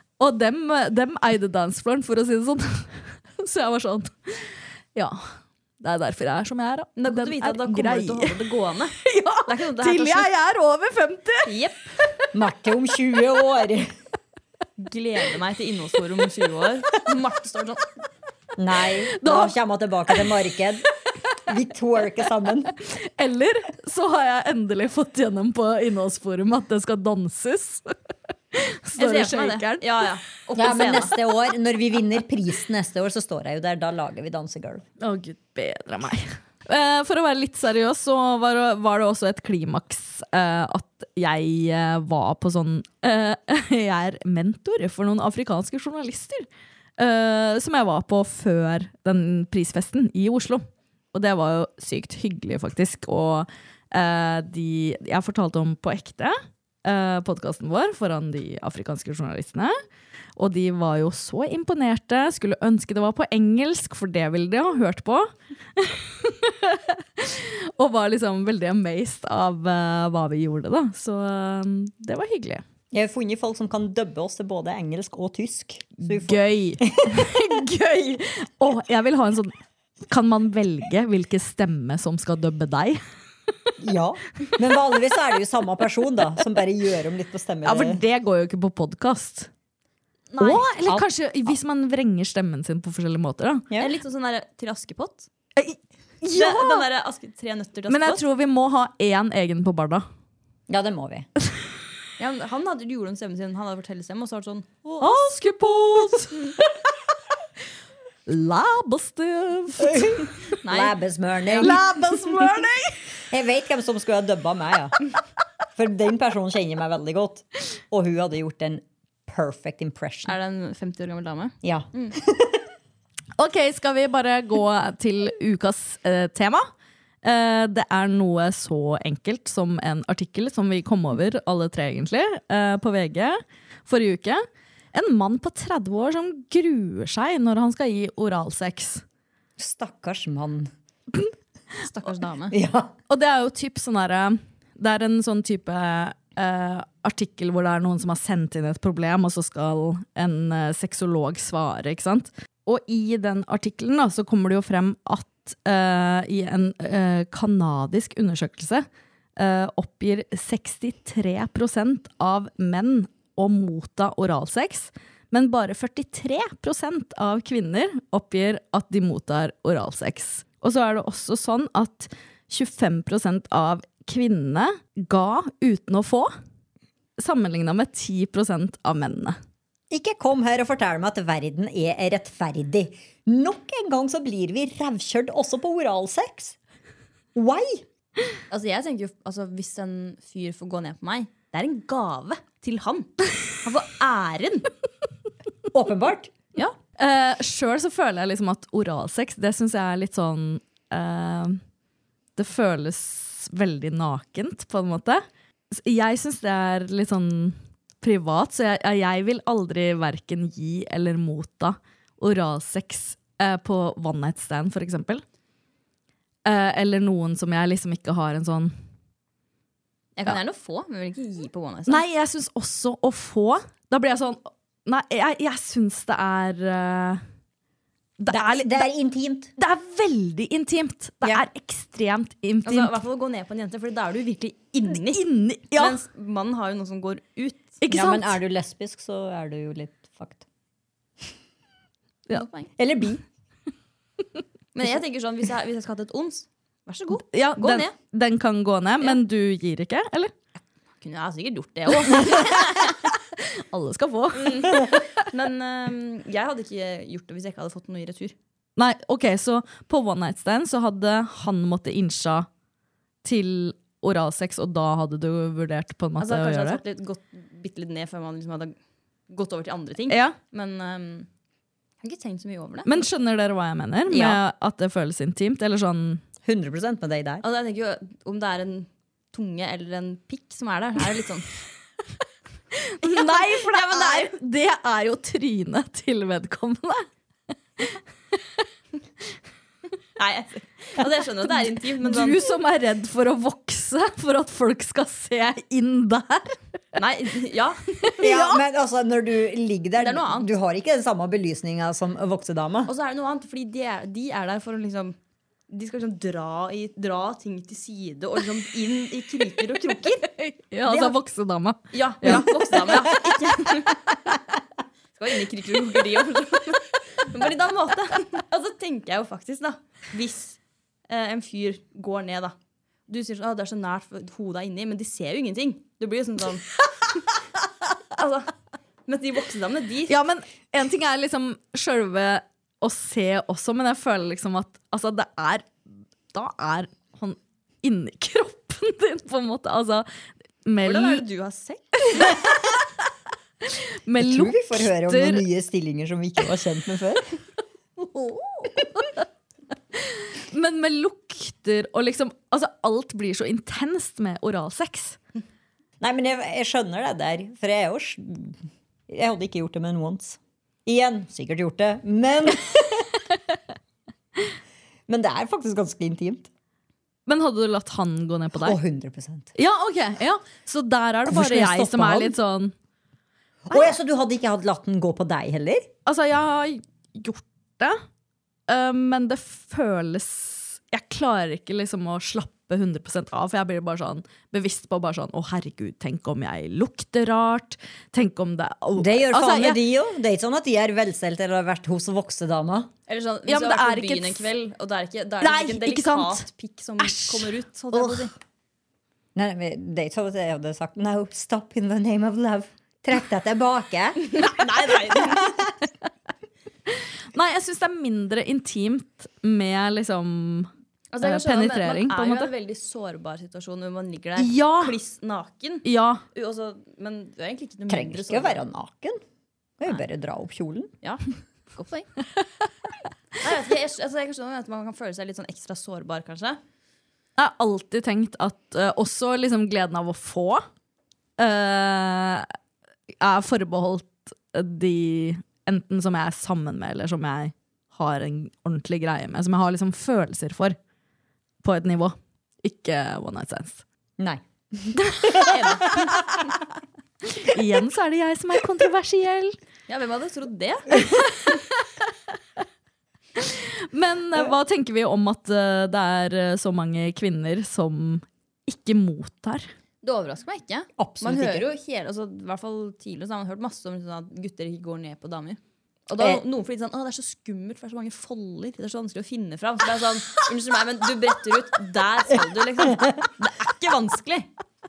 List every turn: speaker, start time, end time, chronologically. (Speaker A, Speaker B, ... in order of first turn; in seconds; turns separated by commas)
Speaker A: 0.2-5.3, Speaker A: 5.8-8.4, Speaker B: 7.0-10.3, Speaker A: 9.0-11.5, Speaker B: 11.4-11.9, Speaker C: 12.3-13.9, Speaker B: 14.8-17.9, Speaker C: 18.6-20.9, Speaker A: 19.2-19.6, Speaker C: 21.5-22.8, Speaker A: 22.9-27.9, Speaker A: 28.5-30.1, Speaker B: 29.0-31.1, Speaker C: 30.6-34.8, Speaker A: 35.0-46.5, Speaker A: 47.0-59.8, Speaker A: 60.4-72.6, Speaker C: 72.9-77.3, Speaker A: 76.0-79.5, Speaker A: 80.1-83.0, Speaker C: 83.8-88.0, Speaker A: 87.6-89.5, Speaker B: 90.3-90.7, Speaker A: 90.4-93.7, Speaker B: 93.8-95.3, Speaker A: 95.6-96.9, Speaker B: 96.3-98.2, Speaker A: 97.9-100.0, Speaker C: 100.7-101.3, Speaker B: 102.2-105.1, Speaker A: 105.0-106.5, Speaker A: 108.3-110.3, Speaker C: 109.9-111.8, Speaker B: 110.6-111.7, Speaker A: 111.6-113.0, Speaker C: 113.3-115.0, Speaker C: 115.8-120.4, Speaker B: 120.3-122.2, Speaker C: 121.6-122.7, Speaker A: 123.4-126.7, Speaker A: 127.2-139.0, Speaker C: 139.6-140.7, Speaker B: 141.8-142.6, Speaker C: 142.5-142.9, Speaker A: 143.1-176.3, Speaker A: 177.2-179.4, Speaker C: 179.9-186.6, Speaker C: 187.3-187.8, Speaker B: 188.5-194.7, Speaker C: 195.7-196.3, Speaker A: 197.0-201.6, Speaker A: 202.4-215.2, Speaker A: 216.4-218.7, Speaker B: 220.2-222.0, Speaker A: 221.9-227.2, Speaker A: 228.2-228.9, Speaker C: 228.3-229.5, Speaker A: 229.6-232.9, Speaker B: 232.7-237.8, Speaker A: 234.9-236.0, Speaker A: 237.8-238.4, Speaker C: 237.9-240.4, Speaker B: 242.3-242.7, Speaker C: 242.8-243.2, Speaker B: 244.7-247.9, Speaker A: 247.2-250.3, Speaker B: 251.0-253.0, Speaker A: 253.4-255.0, Speaker B: 254.3-258.4, Speaker A: 258.8-262.5, Speaker A: 263.2-266.8, Speaker B: 266.2-268.8, Speaker B: 269.3-271.3, Speaker A: 270.1-270.4, Speaker B: 272.0-273.0, Speaker A: 272.9-276.2, Speaker C: 274.1-274.4, Speaker C: 276.4-277.4, Speaker B: 277.4-281.5, Speaker A: 282.9-287.1, Speaker B: 283.0-284.3, Speaker B: 290.2-292.4, Speaker A: 291.5-296.6, Speaker B: 296.9-297.9, Speaker A: 298.2-298.6, Speaker C: 298.2-302.9, Speaker B: 300.0-300.5, Speaker B: 302.9-305.2, Speaker B: 305.7-310.3, Speaker A: 310.4-312.7, Speaker B: 310.9-311.2, Speaker B: 311.9-314.0, Speaker C: 312.3-313.0, Speaker B: 315.1-322.6, Speaker B: 323.1-326.7, Speaker B: 328.1-328.5, Speaker B: 329.1-330.2, Speaker A: 330.1-335.7, Speaker A: 336.3-340.1, Speaker A: 340.7-341.2, Speaker B: 340.8-342.4, Speaker A: 342.1-342.8, Speaker A: 343.6-345.4, Speaker C: 344.2-347.2, Speaker A: 348.0-349.1, Speaker A: 350.0-355.2, Speaker C: 356.0-363.2, Speaker C: 365.1-366.5, Speaker A: 367.3-368.8, Speaker C: 368.6-369.5, Speaker A: 369.6-372.7, Speaker C: 371.3-372.4, Speaker C: 373.7-375.9, Speaker A: 376.1-378.0, Speaker A: 378.7-389.8, Speaker C: 389.0-392.9, Speaker B: 393.1-398.3, Speaker A: 393.5-394.5, Speaker A: 395.4-396.4, Speaker A: 397.0-398.0, Speaker C: 399.4-404.5, Speaker B: 404.2-405.5, Speaker C: 405.2-405.7, Speaker A: 407.3-410.7, Speaker B: 411.1-418.6, Speaker A: 411.2-412.5, Speaker A: 414.4-415.0, Speaker A: 415.9-416.2, Speaker C: 417.9-419.2, Speaker C: 419.8-420.9, Speaker B: 421.7-422.1, Speaker B: 423.4-426.6, Speaker A: 427.4-430.6, Speaker A: 431.4-432.5, Speaker A: 433.2-440.8, Speaker A: 441.6-443.8, Speaker C: 444.2-446.0, Speaker A: 444.9-445.5, Speaker B: 445.4-446.2, Speaker A: 447.3-449.6, Speaker B: 449.9-451.1, Speaker A: 453.4-459.7, Speaker B: 460.0-474.5, Speaker C: 461.0-461.7